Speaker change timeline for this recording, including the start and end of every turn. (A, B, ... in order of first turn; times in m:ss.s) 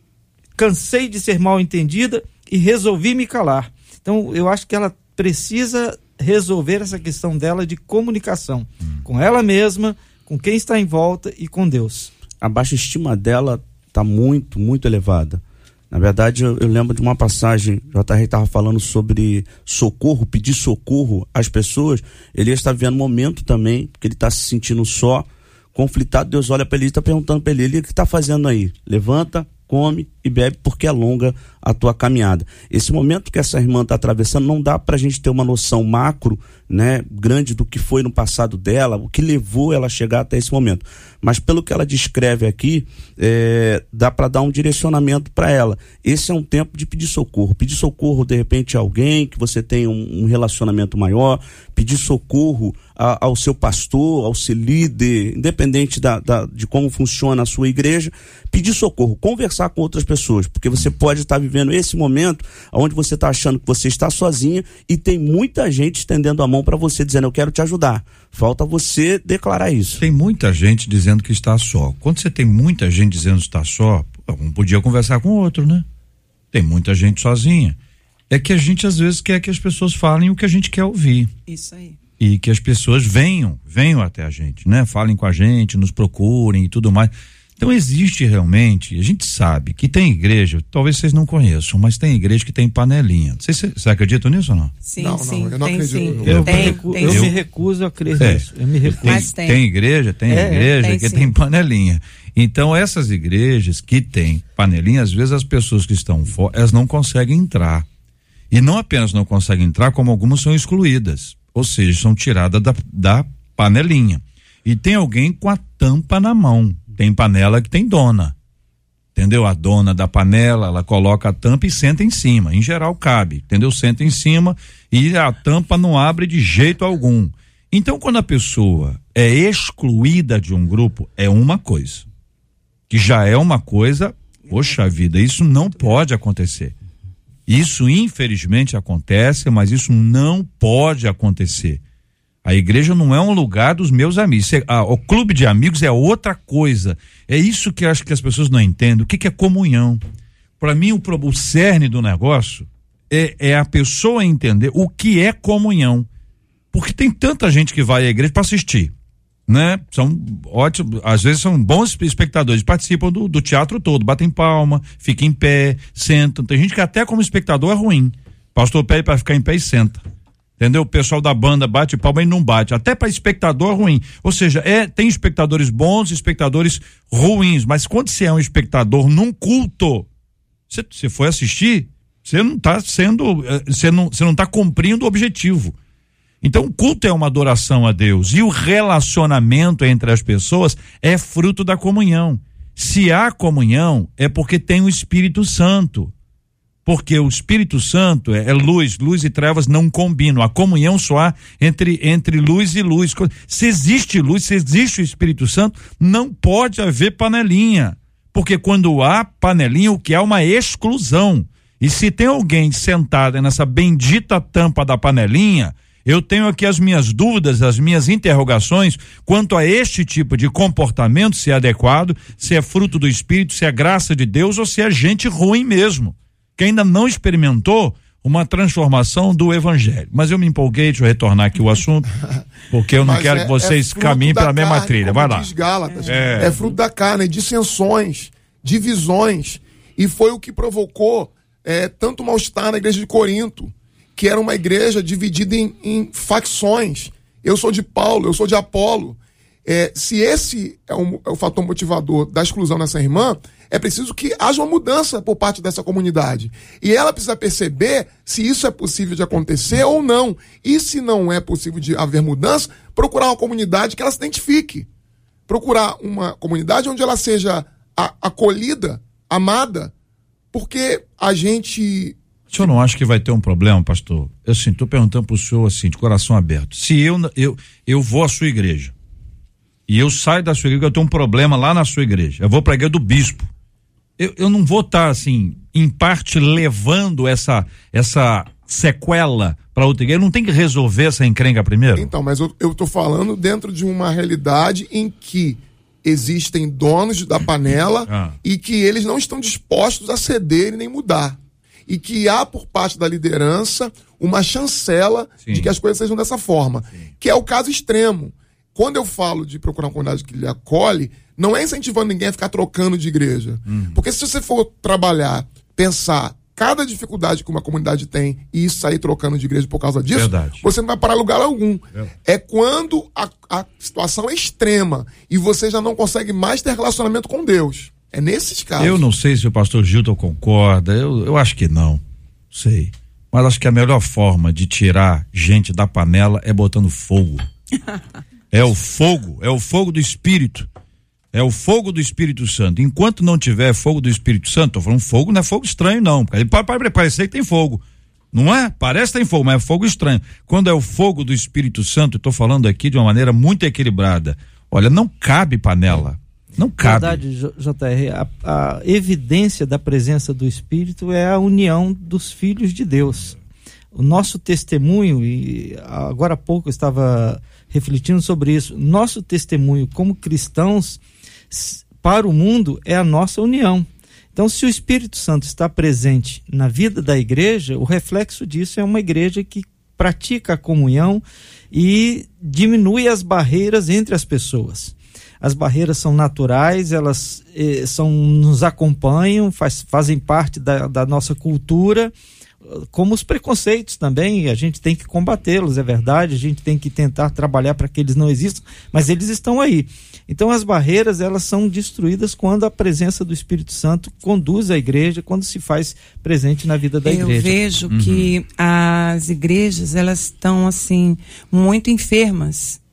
0:00.5-0:12.1 A
0:12.4-1:10.0 B
1:10.0-1:15.8 C
1:16.5-1:17.8 C
1:18.3-1:21.3 C
1:21.5-1:22.0 D
1:22.2-1:34.7 C
1:34.8-1:37.3 D
1:35.0-1:36.7 E
1:36.2-1:39.3 A
1:36.2-1:37.3 C
1:38.2-1:47.8 C
1:39.0-1:39.6 D
1:40.3-1:40.7 A
1:40.8-1:41.3 D
1:48.5-1:58.3 C
1:59.1-2:12.0 C
2:12.9-2:16.7 C
2:14.5-2:14.8 D
2:15.7-2:16.0 D
2:17.5-2:21.8 C
2:22.4-2:30.0 C
2:30.6-2:36.1 C
2:36.7-2:38.9 C
2:39.5-2:50.0 C
2:50.6-3:00.1 C
3:00.7-3:05.7 C
3:06.4-3:16.1 C
3:16.8-3:52.1 C
3:52.7-3:55.5 C
3:53.0-4:24.9 E
3:55.9-3:56.7 D
3:56.0-3:56.6 C
4:25.5-4:29.9 E
4:30.5-4:32.7 E
4:32.5-4:38.9 C
4:39.9-4:43.5 C
4:44.2-4:52.1 C
4:52.0-5:29.0 E
4:58.1-4:58.4 C
5:05.4-5:05.7 C
5:13.7-5:14.0 C
5:20.1-5:20.6 C
5:28.8-5:32.0 C
5:32.5-5:37.4 C
5:38.5-5:40.7 C
5:41.3-5:57.2 C
5:56.8-6:03.3 A
6:03.9-6:11.0 A
6:11.5-6:32.1 A
6:32.7-6:47.6 A
6:47.0-6:52.8 D
6:47.9-6:48.3 C